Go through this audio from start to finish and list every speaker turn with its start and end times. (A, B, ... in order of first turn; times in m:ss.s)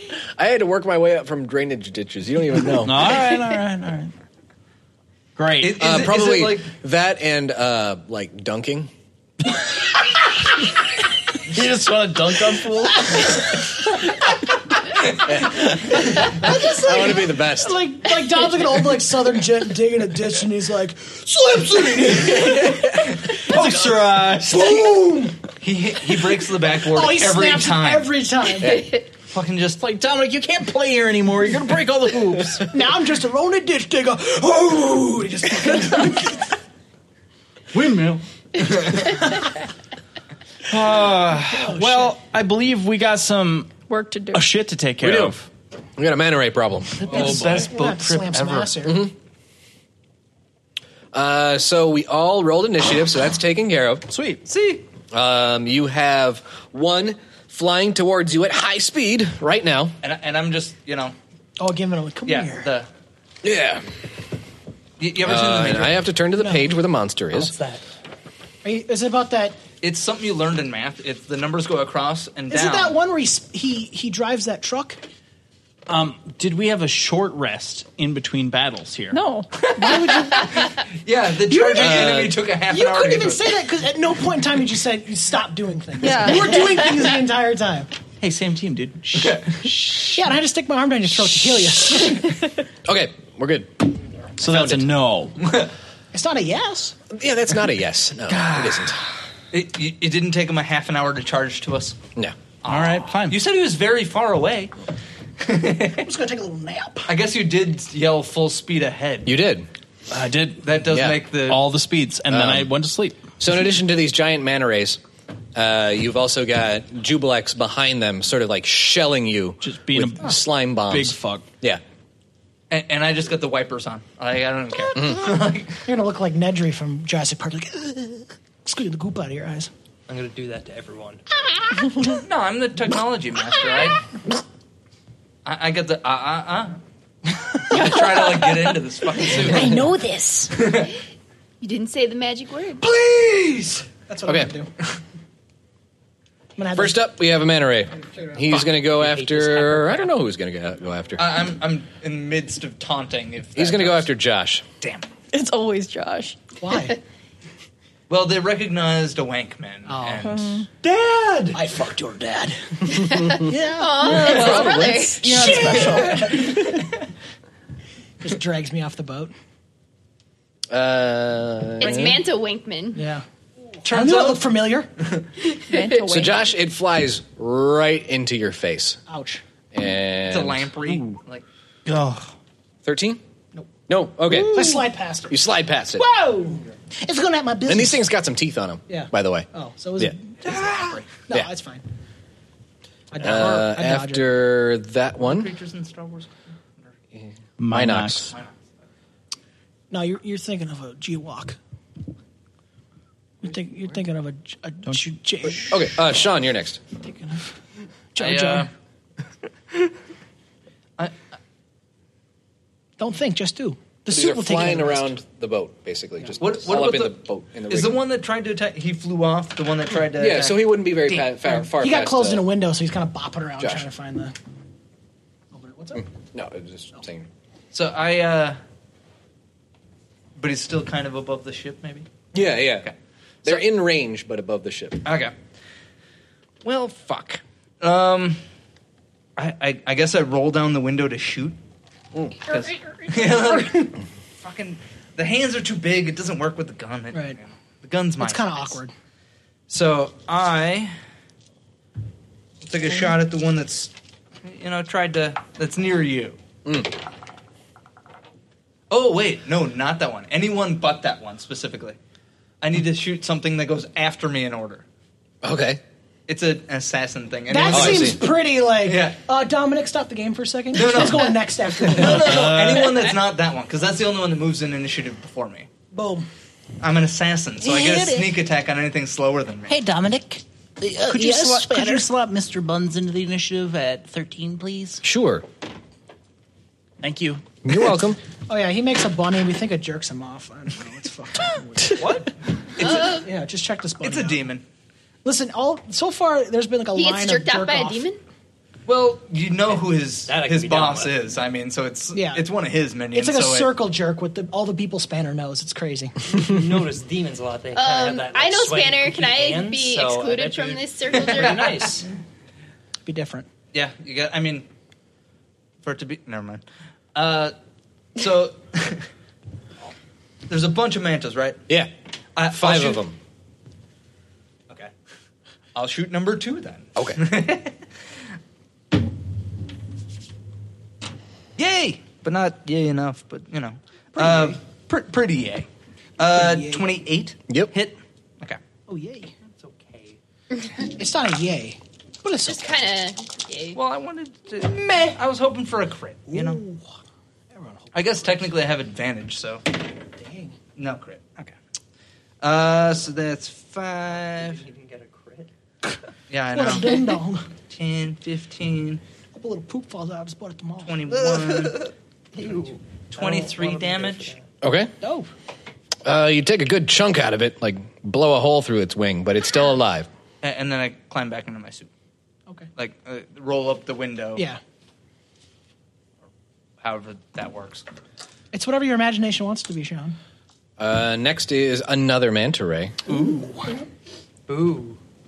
0:00.4-0:03.2 A
0:02.8-0:04.1 B
0:05.4-0:06.1 B
0:05.6-0:06.7 C
0:05.8-0:08.9 A
0:11.5-0:13.4 B
0:15.2-0:17.8 A
0:16.0-0:22.6 D
0:22.1-0:24.4 C
0:22.2-0:22.6 B
0:23.4-0:24.8 B
0:24.4-0:25.4 D
0:25.6-0:28.1 C
0:26.8-0:28.9 D
0:28.6-0:28.9 A
0:29.1-0:29.8 C
0:29.8-0:32.7 B
0:32.6-0:36.6 D
0:37.7-0:39.2 B
0:40.7-0:43.8 B
0:41.5-0:42.1 D
0:43.9-0:44.6 E
0:44.3-0:45.5 B
0:45.0-0:45.4 A
0:46.0-0:47.1 A
0:47.0-0:48.7 C
0:47.1-0:47.7 B
0:47.1-0:49.1 D
0:48.9-0:49.1 A
0:51.1-0:54.1 A
0:54.1-0:54.4 B
0:54.5-0:54.8 C
0:55.1-1:00.0 A
1:00.0-1:01.2 C
1:01.6-1:02.7 D
1:02.2-1:02.9 C
1:03.4-1:03.8 A
1:05.0-1:06.0 C
1:05.2-1:07.5 A
1:07.3-1:07.8 F
1:08.6-1:09.6 D
1:09.8-1:13.0 C
1:12.5-1:15.0 D
1:15.9-1:19.2 B
1:19.1-1:20.2 E
1:19.7-1:20.7 D
1:20.3-1:23.6 C
1:21.5-1:27.9 D
1:21.8-1:22.4 A
1:26.0-1:26.8 E
1:28.2-1:29.9 B
1:29.1-1:29.5 C
1:30.0-1:32.4 D
1:32.8-1:34.9 A
1:34.4-1:35.4 B
1:36.1-1:37.0 D
1:37.1-1:39.0 A
1:38.3-1:39.0 B
1:39.5-1:42.0 C
1:42.6-1:44.7 C
1:42.7-1:43.4 B
1:45.4-1:46.0 C
1:45.9-1:47.1 D
1:47.0-1:49.3 C
1:49.2-1:49.7 A
1:50.1-1:50.8 B
1:50.6-1:51.6 C
1:50.9-1:51.2 A
1:51.5-1:53.2 B
1:52.3-1:52.7 A
1:53.4-1:55.0 A
1:55.6-2:01.8 A
1:59.6-2:01.5 B
2:02.7-2:05.8 C
2:05.0-2:05.3 A
2:05.8-2:09.7 D
2:10.1-2:11.2 F
2:11.5-2:12.2 D
2:12.1-2:14.0 C
2:13.6-2:13.9 D
2:15.4-2:16.8 C
2:17.7-2:19.7 C
2:17.8-2:18.3 E
2:19.3-2:20.5 D
2:20.5-2:20.9 C
2:21.6-2:22.8 G
2:22.8-2:23.9 C
2:24.1-2:24.7 D
2:24.3-2:24.5 A
2:26.6-2:27.1 D
2:26.7-2:31.4 A
2:28.8-2:30.1 F
2:31.2-2:34.1 C
2:33.6-2:34.6 A
2:34.8-2:35.1 C
2:35.3-2:36.4 E
2:36.6-2:37.0 D
2:38.1-2:41.6 C
2:39.9-2:40.4 D
2:40.2-2:40.7 E
2:41.5-2:46.9 D
2:42.9-2:45.4 G
2:44.0-2:46.4 E
2:44.4-2:46.3 B
2:48.2-2:49.3 D
2:50.7-2:52.2 A
2:51.8-2:53.0 G
2:53.0-2:53.2 D
2:53.8-2:54.6 C
2:53.8-2:54.9 D
2:55.6-2:56.4 E
2:55.7-2:56.0 G
2:56.1-2:59.0 A
2:59.1-2:59.4 D
2:59.7-3:01.1 A
3:00.3-3:01.4 C
3:01.9-3:02.2 B
3:02.8-3:03.2 A
3:03.9-3:06.1 A
3:04.3-3:08.0 D
3:07.7-3:10.2 A
3:08.9-3:11.8 D
3:10.4-3:11.1 C
3:13.1-3:14.3 D
3:13.2-3:15.5 A
3:15.2-3:16.9 C
3:17.2-3:18.3 A
3:17.6-3:18.3 B
3:19.9-3:21.6 D
3:23.4-3:25.9 D
3:25.6-3:26.8 A
3:27.0-3:27.5 D
3:28.2-3:28.7 D
3:28.2-3:28.7 C
3:33.0-3:35.1 D
3:34.1-3:38.0 A
3:36.4-3:41.4 C
3:40.2-3:42.5 A
3:41.5-3:44.3 D
3:43.6-3:43.9 A
3:45.5-3:46.1 D
3:46.3-3:47.3 A
3:47.7-3:48.6 C
3:50.4-3:52.1 C
3:52.3-3:52.9 A
3:52.6-3:53.6 C
3:53.4-3:55.0 A
3:55.0-3:55.3 C
3:56.6-3:58.4 C
3:59.4-4:01.6 C
4:02.5-4:04.0 D
4:02.5-4:08.8 C
4:08.2-4:08.9 D
4:09.7-4:10.9 C
4:12.6-4:13.9 C
4:14.4-4:16.4 C
4:16.6-4:16.9 A
4:18.9-4:22.0 C
4:22.6-4:24.8 C
4:25.4-4:25.8 A
4:26.3-4:29.2 C
4:27.5-4:32.5 D
4:27.7-4:28.2 A
4:30.7-4:35.7 C
4:32.1-4:33.1 B
4:35.9-4:36.3 D
4:36.8-4:39.7 C
4:37.6-4:38.4 H
4:39.7-4:45.0 H
4:41.1-4:41.8 A
4:41.7-4:42.1 D
4:45.0-4:45.4 A
4:47.0-4:47.4 B
4:47.6-4:48.2 A
4:48.5-4:52.3 D
4:52.0-4:52.3 F
4:52.8-4:53.3 C
4:52.8-4:54.5 D
4:52.8-4:53.2 G
4:54.0-4:54.6 C
4:55.2-4:58.0 D
4:57.0-4:58.2 G
4:58.9-5:03.8 C
5:00.3-5:01.4 F
5:02.1-5:02.4 D
5:03.1-5:06.4 D
5:06.3-5:12.1 F
5:07.7-5:11.9 G
5:11.1-5:12.1 C
5:13.0-5:13.5 D
5:13.7-5:14.7 C
5:15.8-5:16.6 C
5:17.2-5:17.6 C
5:18.2-5:19.1 C
5:20.5-5:21.6 C
5:22.4-5:23.0 C
5:22.5-5:23.2 A
5:25.8-5:27.8 C
5:27.0-5:27.2 A
5:31.6-5:38.6 C
5:34.2-5:34.6 D
5:36.2-5:36.9 D
5:38.9-5:39.3 D
5:39.6-5:40.2 F
5:40.8-5:42.8 D
5:42.5-5:43.8 G
5:43.7-5:46.6 C
5:46.3-5:47.0 D
5:47.5-5:48.6 D
5:47.9-5:49.6 C
5:50.2-5:50.6 D
5:50.8-5:51.5 C
5:52.4-5:54.6 C
5:54.4-5:55.5 F
5:56.3-5:59.0 C
5:56.5-5:57.5 D
5:59.3-6:00.9 D
6:00.8-6:01.9 C
6:01.1-6:04.4 F
6:03.1-6:04.3 C
6:04.6-6:04.9 A
6:05.0-6:05.3 D
6:06.0-6:10.1 A
6:10.4-6:11.9 C
6:12.8-6:14.4 C
6:16.8-6:17.8 C
6:18.5-6:20.2 D
6:20.8-6:23.0 A
6:23.1-6:23.8 D
6:24.5-6:25.0 F